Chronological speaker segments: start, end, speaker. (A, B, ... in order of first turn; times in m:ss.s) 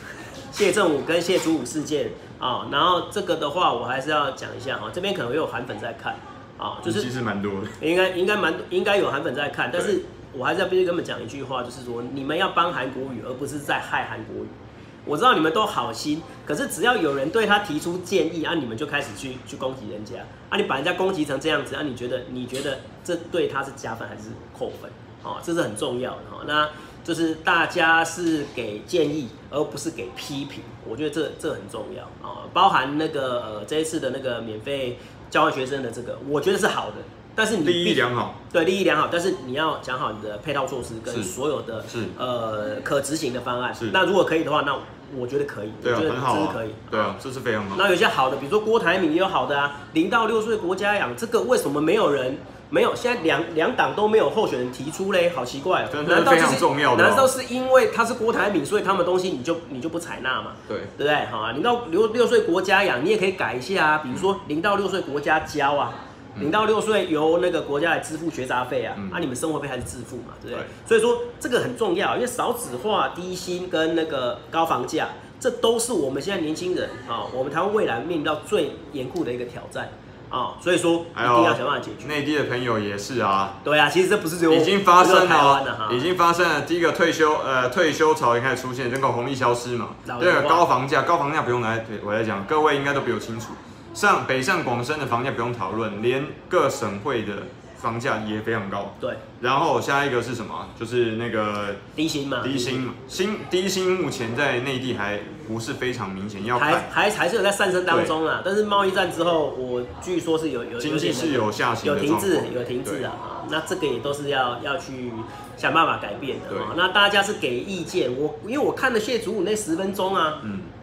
0:00.5-0:07.1 A
0:06.8-0:07.8 B
0:07.8-0:47.2 A
0:37.6-0:38.4 B
0:41.9-0:42.1 B
0:45.8-0:47.8 B
0:47.7-1:22.2 A
0:55.9-0:57.3 B
1:00.7-1:00.9 B
1:09.0-1:09.2 B
1:21.1-1:23.6 B
1:23.6-1:26.1 A
1:24.5-1:41.8 B
1:30.0-1:30.6 A
1:42.0-1:42.8 A
1:42.4-1:46.9 B
1:46.5-2:00.4 A
1:50.8-1:53.1 B
2:00.4-2:00.7 B